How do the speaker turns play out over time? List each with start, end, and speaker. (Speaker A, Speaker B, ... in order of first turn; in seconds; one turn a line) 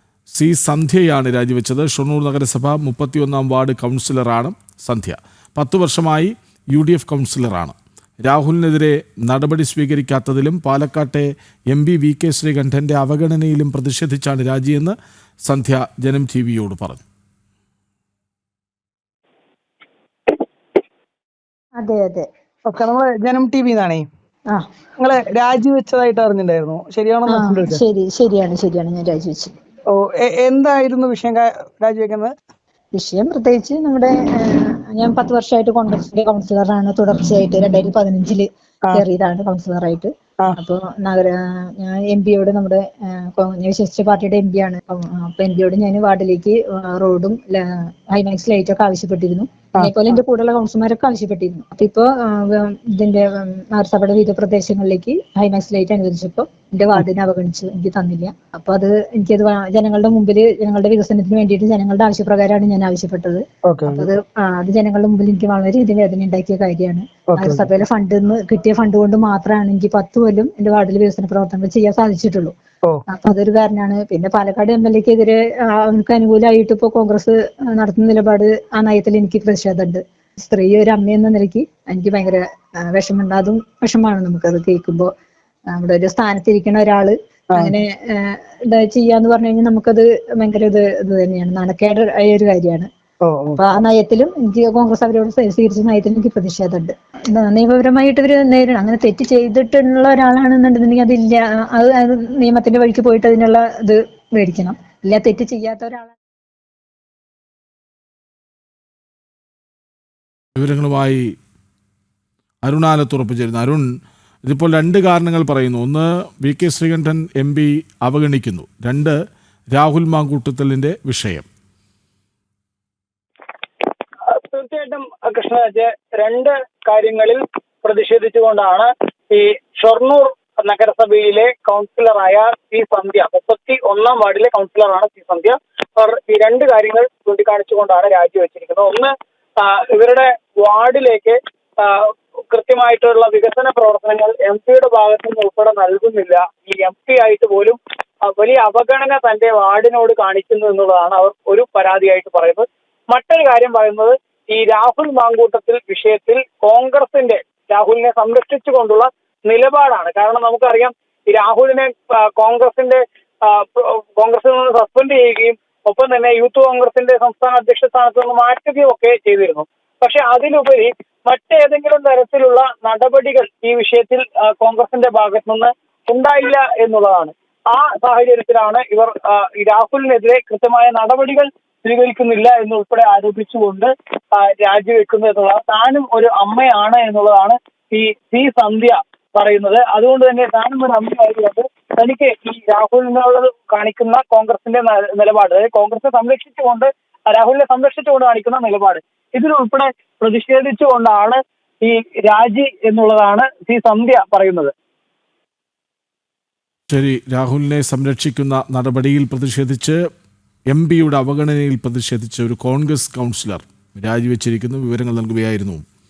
Speaker A: 0.3-17.0
Speaker B: 21.8-22.3
Speaker C: 22.7-24.1
Speaker C: 25.0-27.8
Speaker B: 27.3-29.5
Speaker C: 29.9-32.3
Speaker B: 32.9-72.5
Speaker C: 63.6-64.1
Speaker C: 67.3-67.7
Speaker B: 73.1-82.4
Speaker B: 82.9-85.1
Speaker B: 85.7-92.9
Speaker C: 93.2-93.6
Speaker B: 93.6-106.1
Speaker A: 110.6-111.2
Speaker A: 112.6-113.8
Speaker A: 114.4-119.1
Speaker A: 119.7-121.5
Speaker D: 124.3-204.7
Speaker A: 206.9-210.0
Speaker A: 210.7-215.8